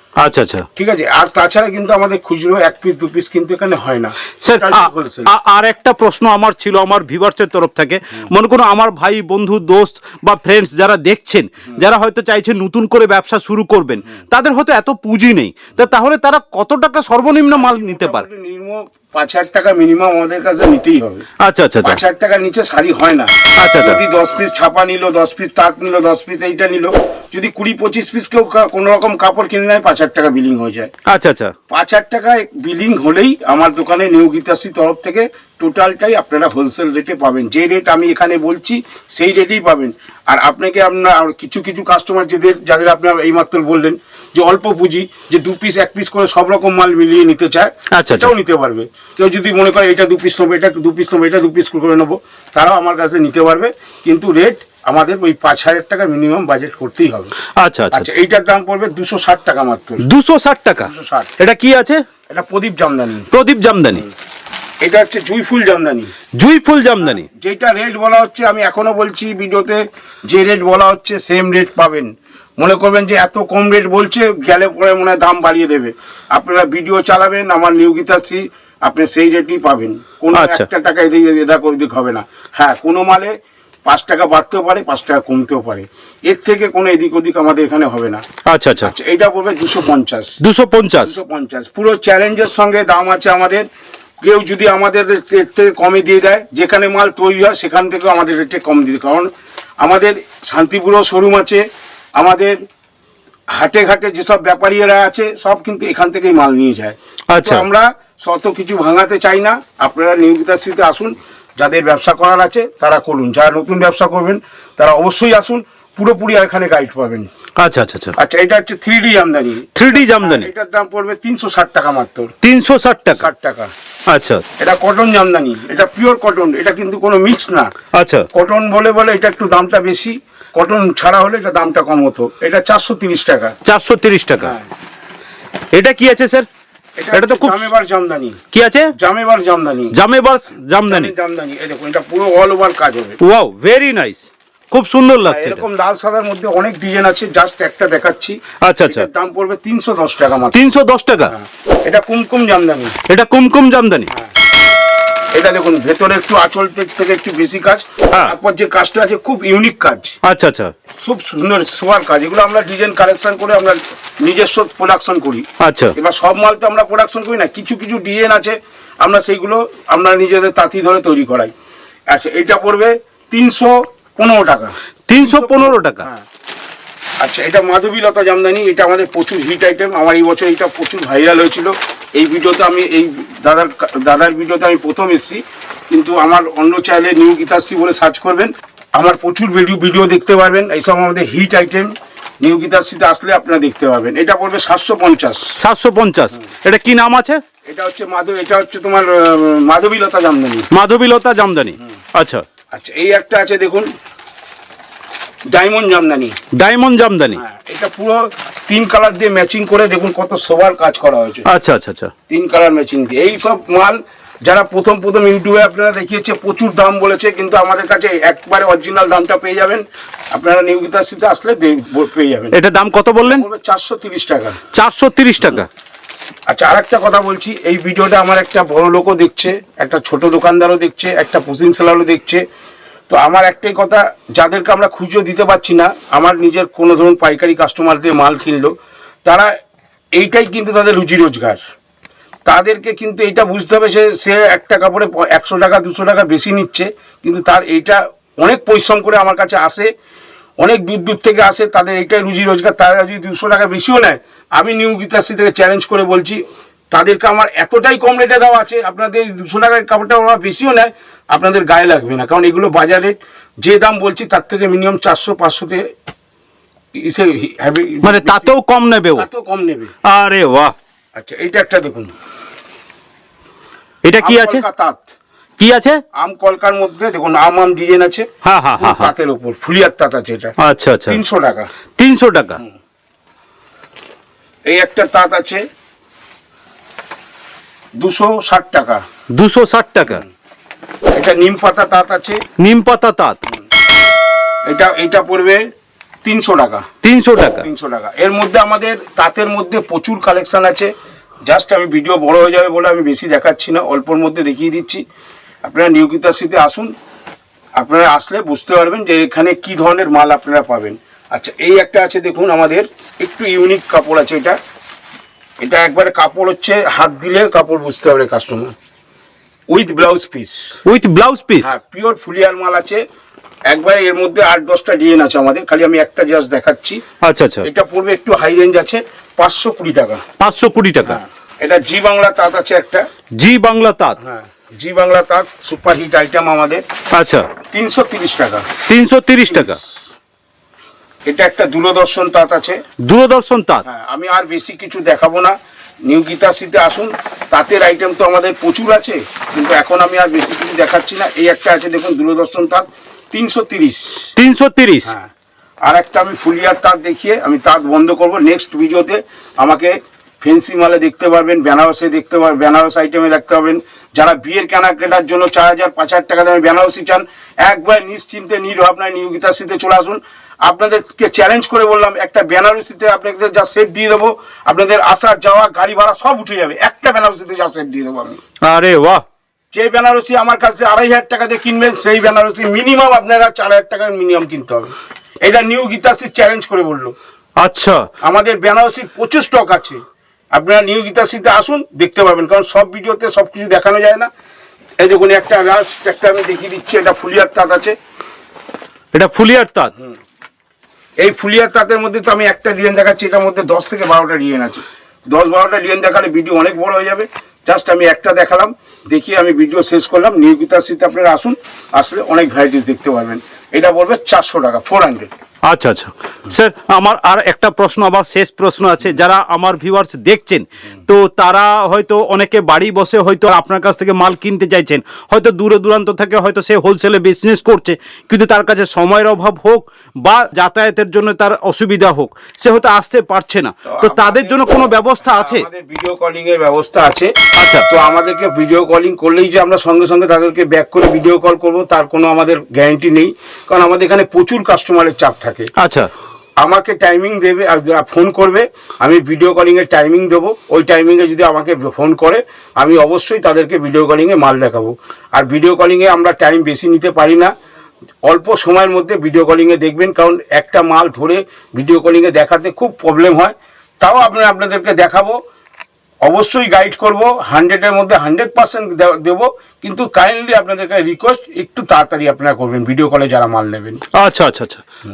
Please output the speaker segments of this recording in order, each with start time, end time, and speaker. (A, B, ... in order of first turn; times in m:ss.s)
0:00.2-0:00.7 A
0:00.8-0:05.3 B
0:04.4-0:18.2 A
0:17.3-0:21.2 B
0:21.4-0:22.0 A
0:21.8-0:30.9 B
0:23.6-0:24.0 A
0:31.1-0:31.5 A
0:31.7-0:57.3 B
0:47.9-0:48.3 A
0:57.6-0:58.1 A
0:57.9-1:00.0 B
1:00.0-1:02.0 A
1:00.8-1:01.3 B
1:02.3-1:03.3 B
1:03.3-1:04.1 A
1:04.8-1:06.1 B
1:06.4-1:07.3 A
1:07.2-1:23.4 B
1:20.3-1:20.7 A
1:23.9-1:28.2 B
1:28.4-1:28.9 A
1:28.8-1:30.4 B
1:30.4-1:31.2 A
1:31.0-1:33.7 B
1:34.2-1:39.3 B
1:39.8-1:41.6 B
1:42.2-1:42.6 B
1:43.5-1:57.3 B
1:47.3-1:47.6 A
1:57.6-1:58.2 A
1:58.2-2:02.3 B
1:59.8-2:00.5 A
2:02.4-2:03.3 A
2:03.2-2:03.7 B
2:04.1-2:04.4 A
2:04.6-2:07.7 B
2:07.9-2:08.2 A
2:08.3-2:13.6 B
2:13.6-2:14.6 A
2:14.4-2:14.7 B
2:15.7-2:16.5 A
2:17.0-2:18.4 B
2:17.1-2:17.7 A
2:18.5-2:18.9 A
2:19.0-2:20.0 B
2:19.9-2:21.1 A
2:20.9-2:23.2 B
2:23.2-2:25.6 A
2:25.2-2:30.7 B
2:28.6-2:29.1 A
2:30.5-2:31.3 A
2:31.3-2:33.0 B
2:33.1-2:34.1 A
2:34.1-2:34.4 B
2:35.4-2:40.2 B
2:40.2-2:40.7 A
2:41.0-2:51.5 B
2:45.6-2:45.9 A
2:52.1-2:56.2 B
2:55.1-2:56.1 A
2:57.2-3:15.5 B
3:15.6-3:17.4 A
3:17.7-3:20.7 B
3:20.7-3:22.4 A
3:22.7-3:23.9 B
3:25.5-3:26.4 B
3:26.5-3:27.4 A
3:27.3-3:31.5 B
3:31.5-3:32.1 A
3:32.3-3:42.6 B
3:42.5-3:43.5 A
3:43.2-3:44.6 B
3:44.7-3:45.7 A
3:46.5-3:52.4 B
3:53.1-3:59.5 B
4:00.2-4:01.6 B
4:02.5-4:09.9 B
4:10.6-4:25.8 B
4:27.0-4:28.5 B
4:28.0-4:29.3 A
4:29.2-4:29.9 B
4:30.0-4:30.7 A
4:31.2-4:32.1 B
4:34.0-4:34.6 A
4:34.2-4:35.1 B
4:35.6-4:36.0 A
4:36.1-4:38.3 B
4:38.4-4:39.1 A
4:38.8-4:40.5 B
4:40.6-4:41.2 A
4:41.1-4:41.7 B
4:42.0-4:42.6 A
4:44.7-4:45.6 B
4:48.0-4:49.0 B
4:49.4-4:50.2 A
4:51.1-4:52.4 B
4:52.6-4:53.4 A
4:54.7-4:55.6 B
4:56.2-4:56.9 B
4:57.0-4:57.7 A
4:57.5-5:00.9 B
5:01.5-5:05.0 B
5:05.6-5:06.9 B
5:07.8-5:14.6 B
5:15.6-5:18.7 B
5:19.7-5:20.8 B
5:20.9-5:21.7 A
5:21.6-5:23.0 B
5:23.7-5:27.0 B
5:27.2-5:27.7 A
5:27.6-5:30.2 B
5:30.4-5:31.2 A
5:31.0-5:33.0 B
5:33.4-5:34.2 A
5:34.2-5:36.8 B
5:37.1-5:37.5 A
5:37.7-5:38.7 B
5:38.9-5:39.8 A
5:39.4-5:40.0 B
5:41.3-5:42.8 B
5:43.0-5:43.8 A
5:43.8-5:45.6 B
5:46.1-5:54.3 B
5:54.4-5:55.1 A
5:55.8-6:18.4 B
6:18.6-6:19.2 A
6:19.7-6:24.9 B
6:25.4-6:27.2 B
6:27.6-6:28.0 A
6:28.2-6:30.0 B
6:30.5-6:34.3 B
6:35.0-6:38.0 B
6:39.1-6:39.9 A
6:41.2-6:55.3 B
6:55.7-7:15.6 A
7:13.9-7:17.3 B
7:17.6-7:17.9 A
7:17.9-7:25.7 B
7:25.8-7:26.1 A
7:26.6-7:37.5 B
7:38.2-7:45.4 B
7:46.2-7:54.0 B
7:54.1-7:54.8 A